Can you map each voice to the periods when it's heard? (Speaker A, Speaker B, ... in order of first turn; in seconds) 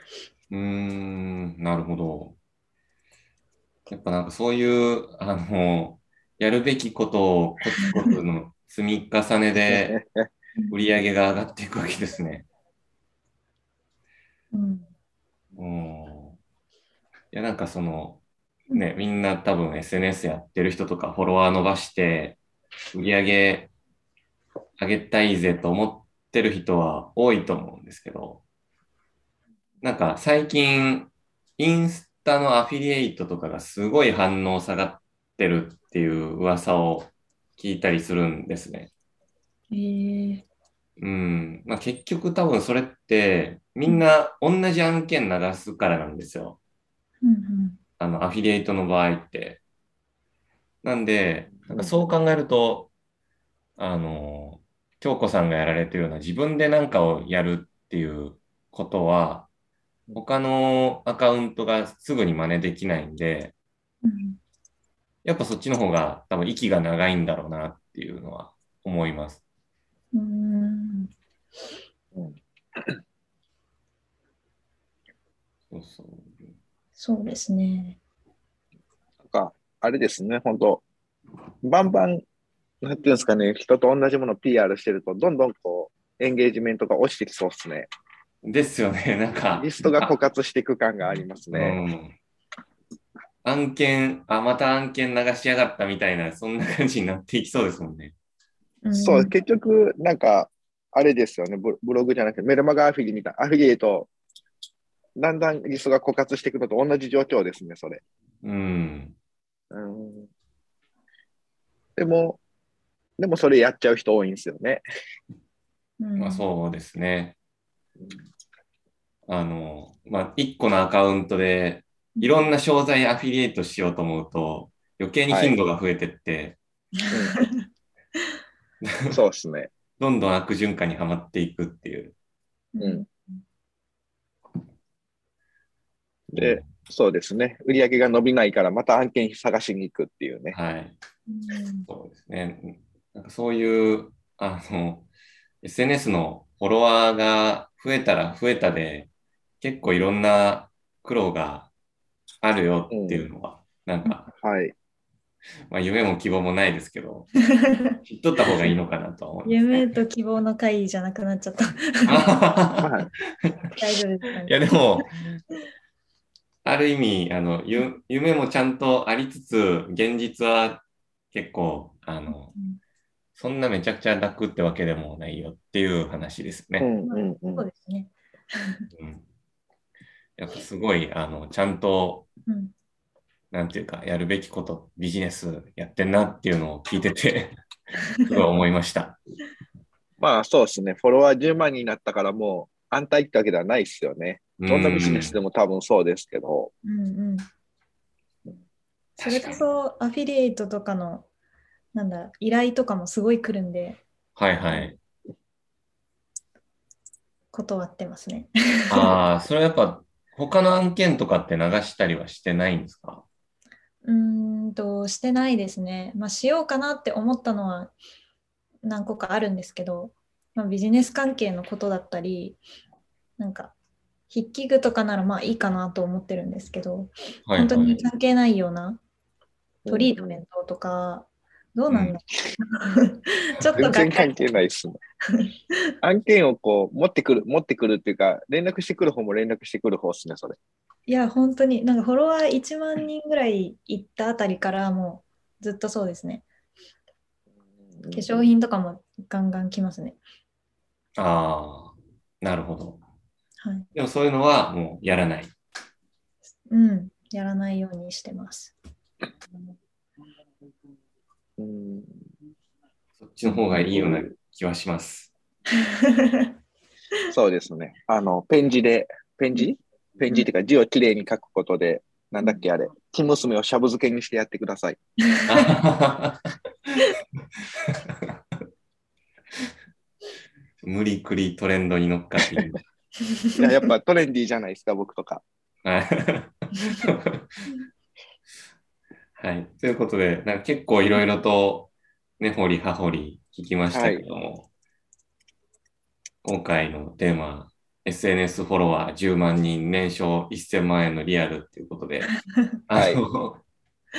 Speaker A: 0.5-2.4, 3.9-9.9, 10.7-12.5, 15.6-16.4, 17.3-22.4, 22.9-23.7, 24.8-28.4, 29.8-38.9, 41.0-46.6, 48.0-49.6, 50.8-52.9, 53.8-59.5, 60.1-63.5, 65.2-69.4, 75.7-76.5, 88.4-90.1, 91.5-92.1, 93.4-98.1, 108.4-109.2, 116.2-117.3, 119.3-126.6, 128.8-129.1, 130.0-132.1, 136.4-136.7, 140.5-140.9, 141.9-145.1, 145.6-149.1, 149.6-151.7, 152.4-154.3, 155.7-157.3, 158.0-159.8, 162.0-162.9, 163.4-163.7, 164.4-165.1, 166.6-172.5, 173.3-176.9, 178.9-179.2, 180.4-182.3, 183.5-187.6, 188.2-189.2, 194.6-195.4, 199.2-199.7, 204.3-205.0, 208.9-213.2, 227.5-228.1, 231.9-232.1, 251.2-253.0, 253.9-255.5, 263.2-265.3, 275.4-277.1, 277.8-278.2, 280.8-282.8, 285.8-287.5, 289.4-294.7, 296.4-302.3, 302.9-303.6
Speaker B: 9.6-10.3, 51.7-52.0, 72.1-73.0, 79.2-80.8, 81.6-82.2, 82.8-87.9, 89.5-91.8, 98.9-104.1, 105.2-108.0, 109.7-110.3, 112.0-112.4, 113.2-114.8, 125.3-125.6, 127.1-127.4, 129.1-129.7, 136.3-140.6, 152.9-153.3, 154.4-154.7, 162.8-163.1, 176.8-177.7, 190.2-196.7, 229.8-230.4, 233.8-235.0, 236.0-240.6, 247.9-248.5, 261.6-262.2, 263.5-264.3, 267.3-275.0, 283.5-285.4, 293.9-294.2, 302.9-303.2
Speaker C: 14.5-14.9, 39.7-40.4, 47.2-47.8, 64.0-64.4, 70.1-71.1, 77.0-78.0, 98.8-99.3, 116.0-116.4, 122.2-122.5, 127.1-127.7, 132.7-133.4, 141.3-141.9, 157.6-158.0, 159.4-162.3, 163.7-164.5, 172.3-172.8, 177.0-178.9, 182.5-182.7, 196.8-197.5, 199.2-201.3, 201.9-204.0, 207.5-209.2, 214.0-217.9, 218.8-222.6, 223.4-223.7, 224.3-229.0, 229.9-234.3, 241.1-246.4, 248.1-250.2, 253.6-253.9, 256.7-258.7, 265.7-266.5, 275.2-275.7